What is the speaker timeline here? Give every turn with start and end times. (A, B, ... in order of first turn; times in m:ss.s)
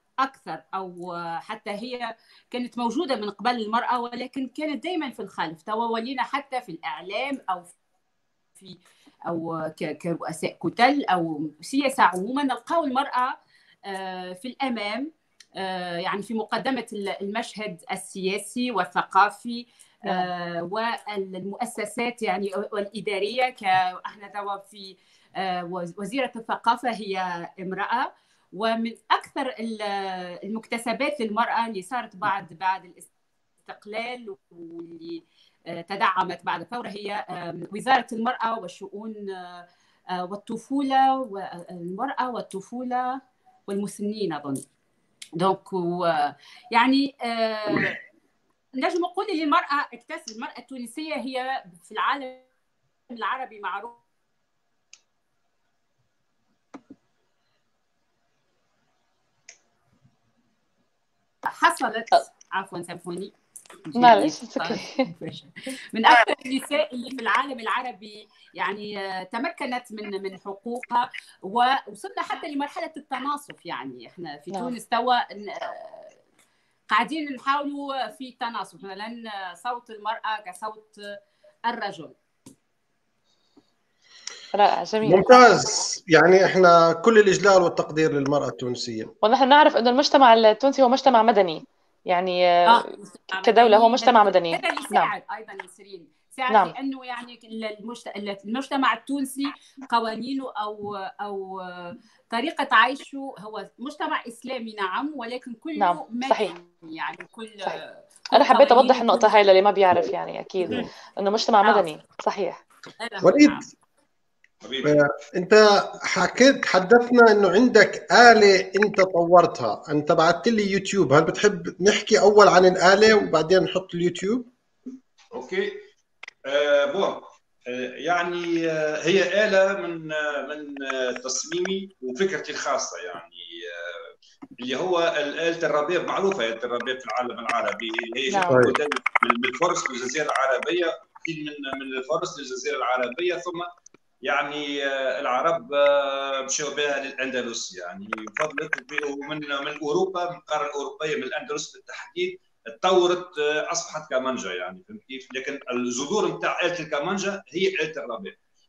0:00.2-0:07.7 A
0:08.6-0:13.3 A
0:13.8-0:33.1 A
0:33.6-0:44.6 A
0:45.4-0:48.0 A
0:48.8-0:52.5 A
0:53.1-0:54.0 A
1:01.4-1:03.3 A
1:03.9-1:16.2 A
1:04.0-1:05.0 B
1:16.9-1:22.1 A
1:24.5-1:25.4 B
1:25.0-1:29.1 C
1:29.2-1:32.8 B
1:32.6-1:49.3 A
1:33.4-1:35.1 B
1:45.8-1:46.5 B
1:48.3-1:52.6 B
1:53.0-1:53.7 A
1:53.2-1:53.6 C
1:54.6-1:55.0 D
1:54.8-2:04.5 C
2:05.3-2:05.8 D
2:06.4-2:23.7 D
2:18.3-2:18.6 B
2:18.5-2:18.8 C
2:24.2-2:38.4 D